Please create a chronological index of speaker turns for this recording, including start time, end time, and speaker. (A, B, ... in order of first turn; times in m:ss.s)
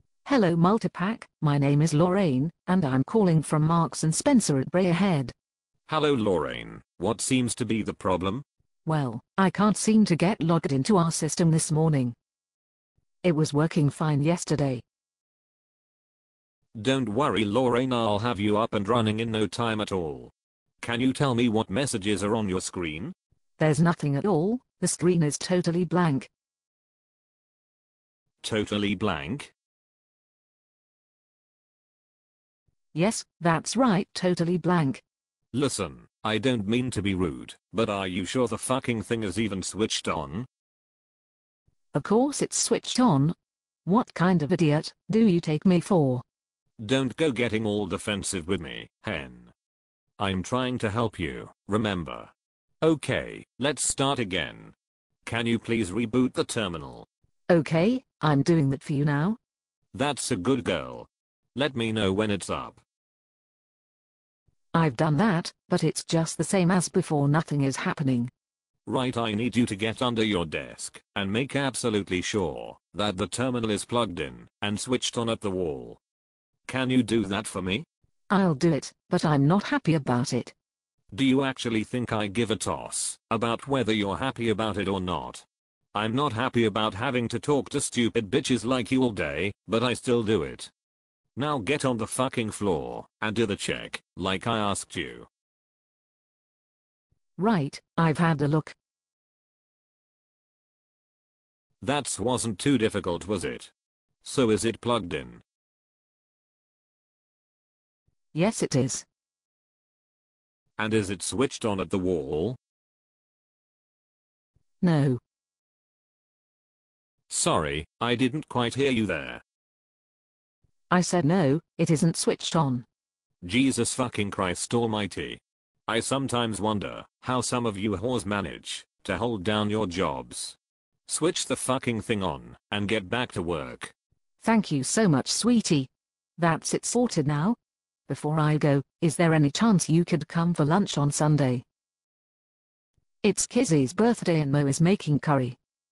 0:00.3-0:05.3 A
0:05.9-0:08.4 B
0:08.8-0:12.2 A
0:13.2-0:14.8 A
0:16.8-0:23.1 B
0:23.6-0:26.3 A
0:28.4-0:29.5 B
0:32.9-0:35.0 A
0:35.5-0:40.5 B
0:41.9-0:43.3 A
0:43.9-0:46.2 A
0:46.8-0:49.5 B
0:50.2-0:57.1 B
0:57.5-0:59.4 A
0:59.9-1:02.8 B
1:04.7-1:08.3 A
1:08.9-1:16.0 B
1:16.7-1:17.9 B
1:18.3-1:20.5 A
1:21.1-1:30.7 B
1:31.4-1:35.3 B
1:37.4-1:38.8 A
1:41.8-1:43.7 B
1:44.2-1:45.4 B
1:48.3-1:49.1 A
1:50.8-1:52.6 B
1:54.8-1:55.2 A
1:57.3-1:59.4 B
2:00.9-2:02.8 A
2:03.4-2:13.9 B
2:14.4-2:17.6 A
2:18.1-2:21.6 A
2:23.2-2:25.6 A